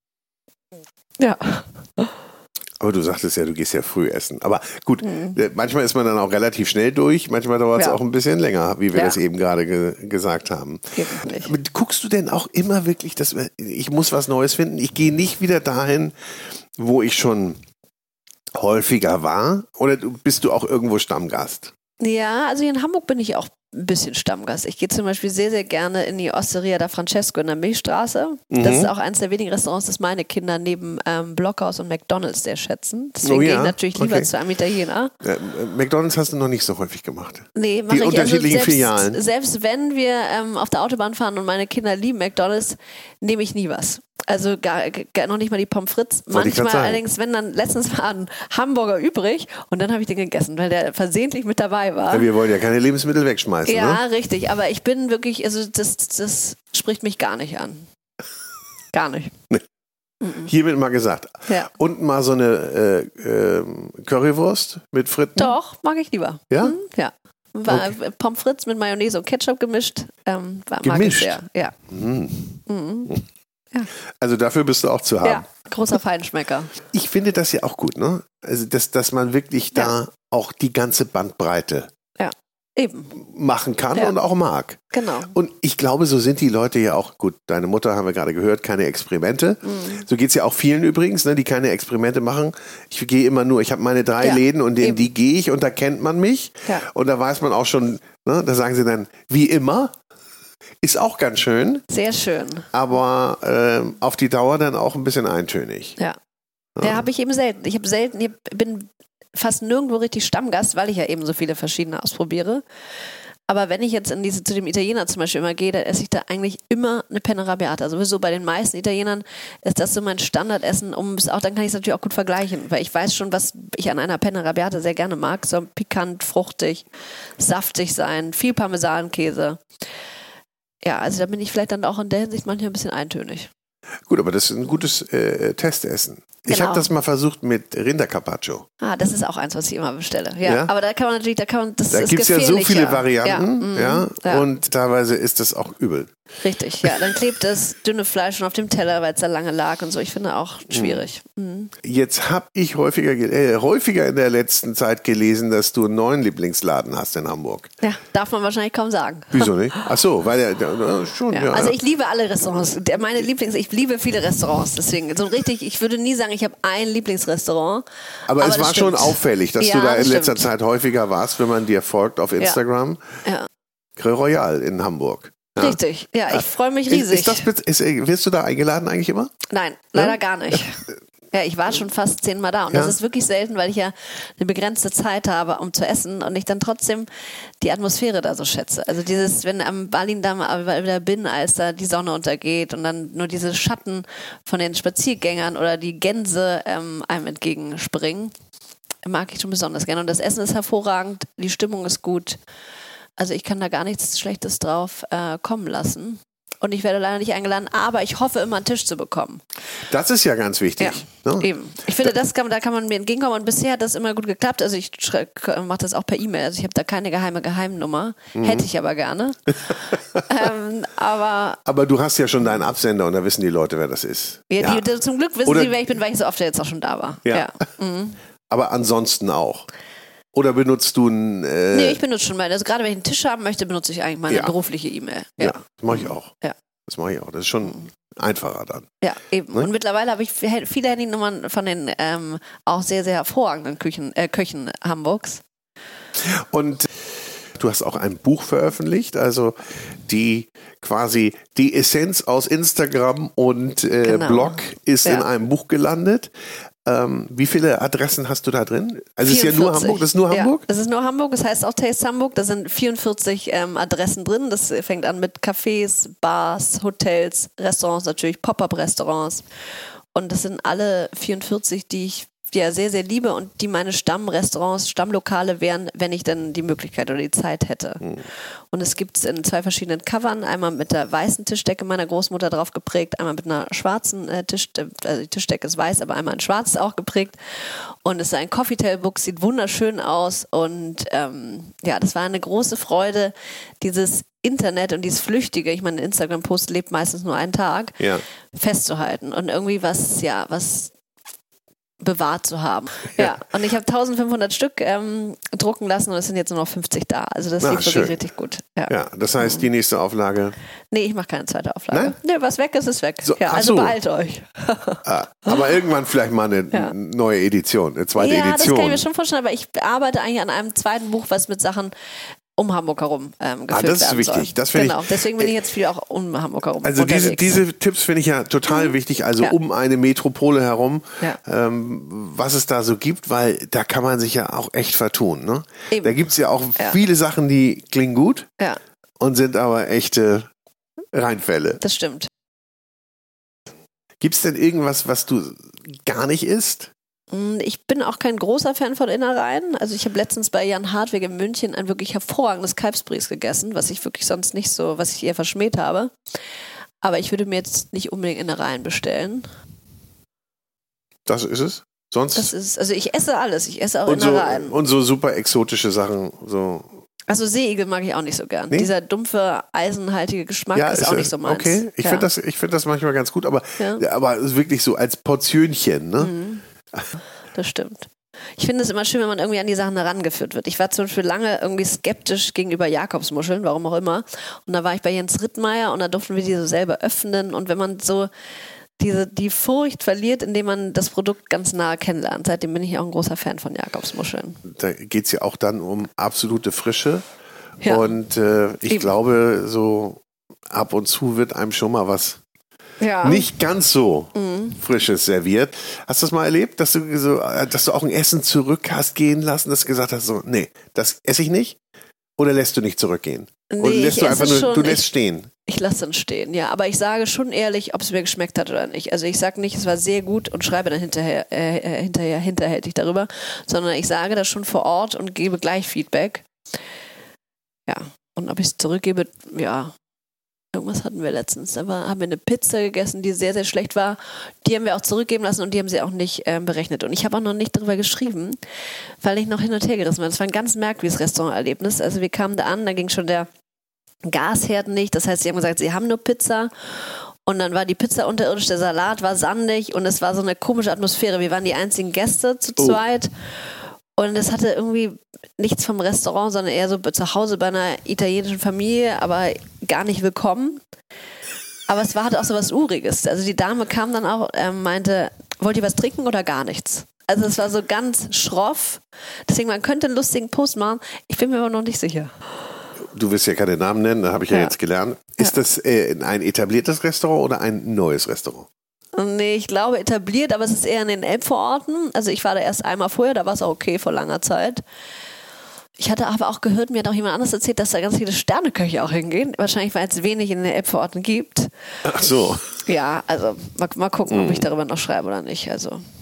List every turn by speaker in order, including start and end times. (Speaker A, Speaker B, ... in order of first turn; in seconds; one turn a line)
Speaker A: 1.2-2.1
Speaker B: 2.8-16.1
Speaker A: 5.0-5.4
Speaker A: 8.9-9.2
Speaker A: 10.9-11.5
Speaker B: 16.8-17.6
Speaker B: 18.5-21.7
Speaker A: 22.0-35.1
Speaker B: 28.5-28.9
Speaker B: 33.2-34.3
Speaker B: 35.2-39.2
Speaker A: 37.5-52.3
Speaker B: 46.3-47.0
Speaker B: 52.1-54.0
Speaker A: 53.6-57.9
Speaker A: 58.9-59.3
Speaker A: 60.2-60.5
Speaker B: 60.4-65.5
Speaker A: 65.3-71.7
Speaker B: 66.5-66.8
Speaker B: 67.7-67.9
Speaker B: 70.8-73.2
Speaker A: 72.7-73.2
Speaker B: 74.2-75.4
Speaker A: 75.2-76.7
Speaker B: 76.9-81.9
Speaker A: 82.2-83.1
Speaker B: 83.1-99.9
Speaker A: 84.9-85.3
Speaker A: 89.6-90.0
Speaker A: 94.2-95.1
Speaker B: 100.8-101.8
Speaker A: 101.9-102.7
Speaker B: 102.7-106.0
Speaker B: 106.8-107.1
Speaker A: 106.8-112.6
Speaker A: 113.5-126.8
Speaker A: 127.4-129.6
Speaker A: 130.8-133.5
Speaker B: 134.1-138.7
Speaker A: 136.5-136.9
Speaker A: 138.8-144.4
Speaker B: 140.4-140.7
Speaker B: 141.9-146.2
Speaker A: 146.4-151.7
Speaker B: 146.8-147.2
Speaker B: 150.7-151.0
Speaker B: 151.8-157.7
Speaker A: 157.8-159.9
Speaker B: 159.3-161.8
Speaker A: 161.3-167.8
Speaker B: 168.3-173.0
Speaker A: 168.4-170.5
Speaker B: 174.0-179.3
Speaker A: 175.6-177.5
Speaker A: 179.5-187.1
Speaker B: 179.9-180.6
Speaker B: 182.7-182.9
Speaker A: 187.6-198.3
Speaker A: 199.0-202.4
Speaker A: 203.2-209.4
Speaker B: 209.9-211.5
Speaker A: 210.8-221.6
Speaker B: 218.3-218.6
Speaker B: 219.7-220.2
Speaker B: 221.7-224.8
Speaker A: 224.5-228.2
Speaker B: 225.4-225.8
Speaker B: 228.5-229.7
Speaker B: 230.3-232.0
Speaker A: 231.7-236.5
Speaker B: 235.4-236.3
Speaker B: 236.9-238.9
Speaker A: 239.0-245.4
Speaker B: 246.2-256.3
Speaker A: 254.0-255.2
Speaker B: 256.8-260.6
Speaker A: 259.2-269.4
Speaker A: 270.1-300.9
Speaker A: 302.0-309.6
Speaker B: 307.6-308.1
Speaker B: 308.9-310.6
Speaker A: 310.9-315.6
Speaker B: 311.9-312.1
Speaker B: 313.2-314.0
Speaker B: 315.0-319.0
Speaker A: 318.2-321.9
Speaker A: 322.5-327.6
Speaker B: 323.7-325.5
Speaker B: 326.8-338.5
Speaker A: 328.7-329.5
Speaker A: 335.9-336.2
Speaker B: 339.2-340.5
Speaker B: 341.1-341.8
Speaker A: 341.8-342.3
Speaker B: 344.2-346.9
Speaker A: 347.3-356.1
Speaker A: 357.0-359.5
Speaker B: 361.2-362.5
Speaker A: 362.3-364.7
Speaker B: 364.1-366.9
Speaker A: 367.3-372.3
Speaker B: 370.7-376.3
Speaker A: 376.2-376.6
Speaker A: 377.5-388.3
Speaker A: 389.0-394.6
Speaker B: 394.6-397.2
Speaker A: 397.8-398.2
Speaker B: 397.8-402.4
Speaker A: 403.0-403.5
Speaker B: 403.2-411.8
Speaker A: 404.3-404.8
Speaker B: 412.4-415.5
Speaker A: 413.7-415.1
Speaker A: 415.6-426.5
Speaker A: 427.9-429.9
Speaker A: 430.7-438.6
Speaker A: 439.2-443.5
Speaker A: 444.2-446.9
Speaker A: 447.4-453.3
Speaker A: 454.2-460.8
Speaker A: 461.9-472.3
Speaker B: 473.0-478.7
Speaker A: 479.1-484.8
Speaker A: 486.0-491.7
Speaker B: 492.0-492.8
Speaker A: 492.8-496.0
Speaker B: 494.3-494.6